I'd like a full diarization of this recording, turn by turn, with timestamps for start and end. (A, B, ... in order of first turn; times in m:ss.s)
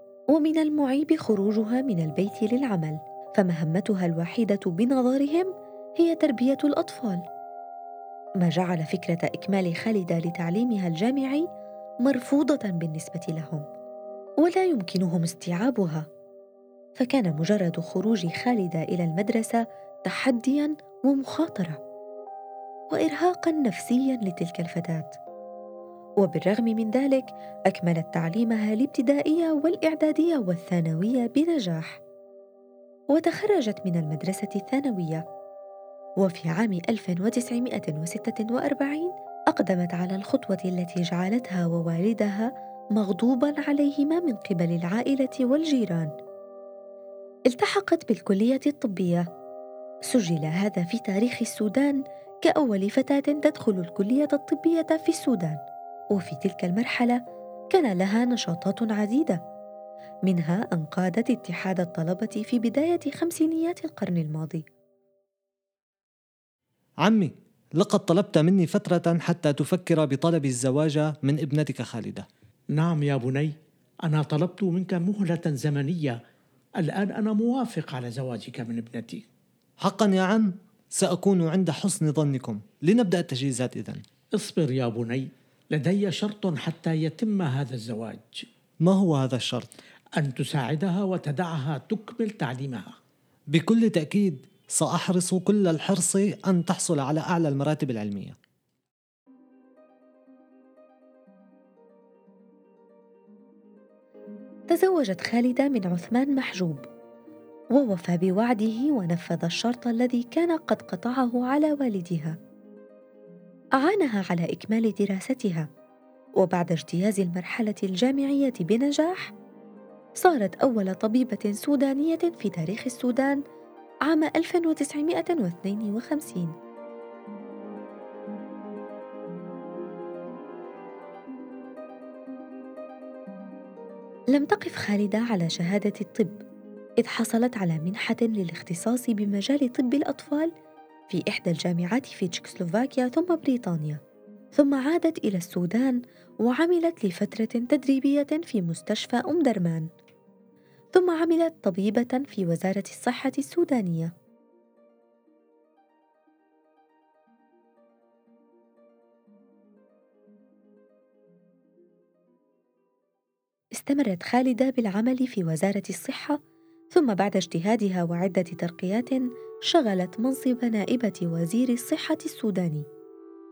0:00.3-0:07.2 A
0:08.4-0:11.5 A
0:12.0-0:13.6 A
0:14.4-0:16.1 A
0:17.0-0:21.8 A
0:22.9-0:25.1 A
0:26.2-0:32.0 A
0:33.1-0:35.2 A
0:36.2-0:46.1 A
0:47.5-0:49.2 A
0:50.1-0:55.6 A
0:56.1-0:57.2 A
0:57.7-0:59.4 A
1:00.2-1:04.6 A
1:07.0-1:12.3 B
1:12.7-1:13.5 C
1:14.0-1:16.2 C
1:16.8-1:19.2 C
1:19.8-1:24.0 B
1:24.4-1:28.4 C
1:28.8-1:29.7 B
1:30.2-1:32.9 C
1:33.5-1:38.4 B
1:44.7-1:46.8 A
1:47.7-1:52.4 A
1:53.8-1:55.7 A
1:56.4-1:59.3 A
2:00.2-2:03.4 A
2:04.0-2:06.5 A
2:14.3-2:16.4 A
2:17.0-2:20.5 A
2:21.1-2:24.0 A
2:24.6-2:29.9 A
2:30.9-2:34.1 A
2:43.7-2:46.4 A
2:46.9-2:52.8 A